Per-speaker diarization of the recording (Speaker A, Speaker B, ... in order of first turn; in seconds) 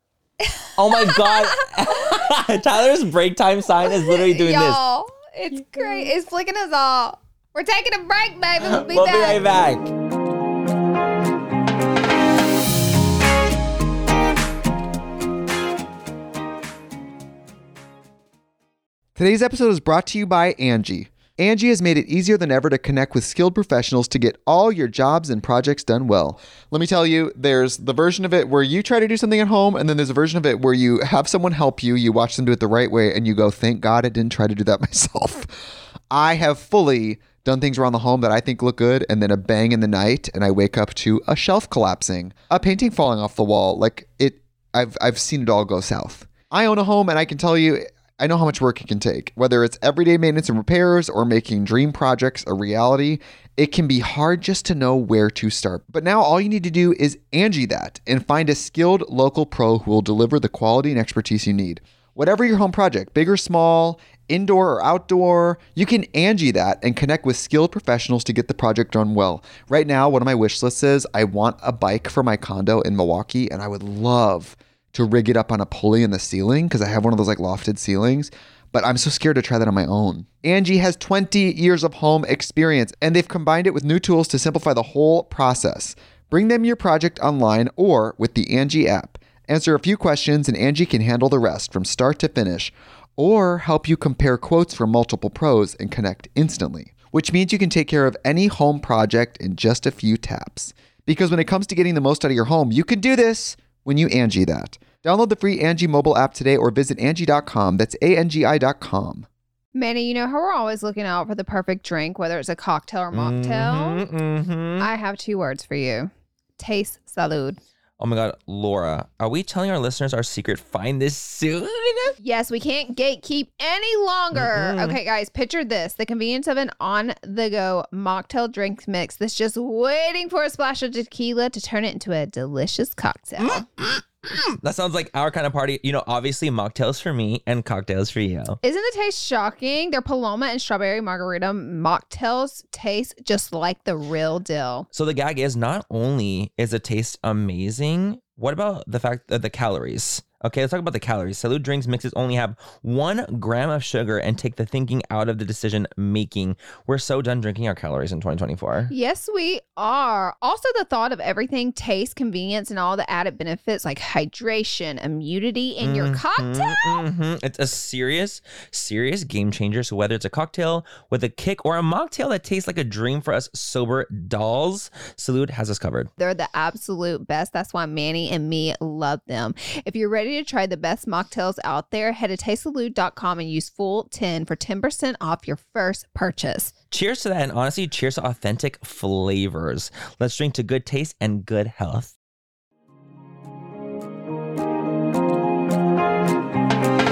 Speaker A: 0.4-2.2, 3.8-9.4, 109.8-114.0, 114.8-117.6, 122.2-133.7, 138.6-144.9, 158.9-167.0, 176.2-186.7
Speaker B: 0.8-4.8, 8.6-9.9, 113.1-114.9, 118.0-122.2, 124.3-125.0, 133.4-138.6, 144.9-158.9, 165.8-176.1, 186.9-192.1
Speaker C: 19.2-35.5, 36.1-109.3